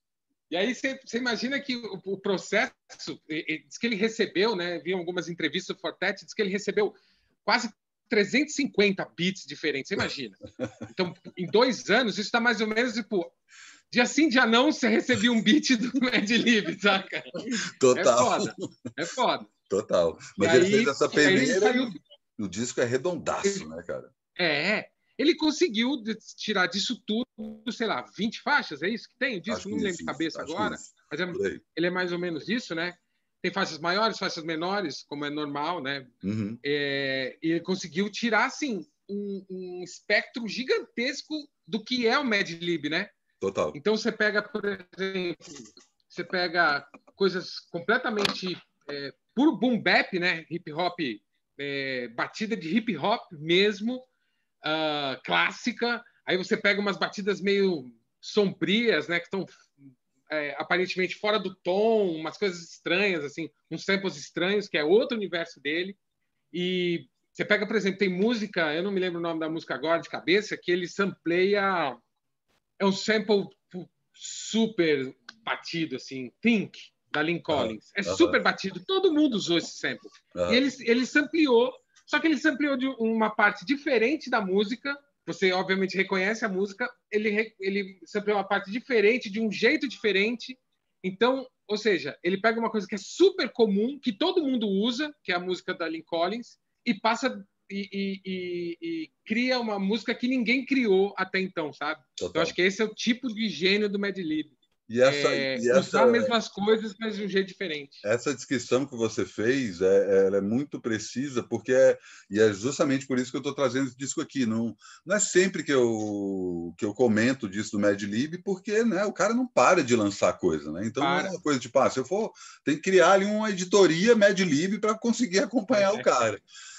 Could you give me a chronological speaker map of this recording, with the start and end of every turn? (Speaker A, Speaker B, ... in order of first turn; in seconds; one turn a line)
Speaker A: 0.5-13.3
Speaker A: 13.9-19.5
Speaker B: 17.6-18.7
Speaker B: 19.7-24.1
Speaker A: 20.4-21.9
Speaker A: 24.4-43.1
Speaker B: 29.5-31.6
Speaker B: 36.2-36.6
Speaker B: 43.4-43.8
Speaker A: 43.7-54.0
Speaker A: 54.6-59.7
Speaker A: 60.3-66.0
Speaker A: 66.5-72.0
Speaker A: 72.8-104.5
Speaker B: 77.5-78.4
Speaker B: 80.3-80.6
Speaker B: 102.2-102.5
Speaker B: 104.9-106.4
Speaker A: 105.0-108.0
Speaker B: 108.0-126.4
Speaker A: 121.0-121.3
Speaker A: 125.7-126.1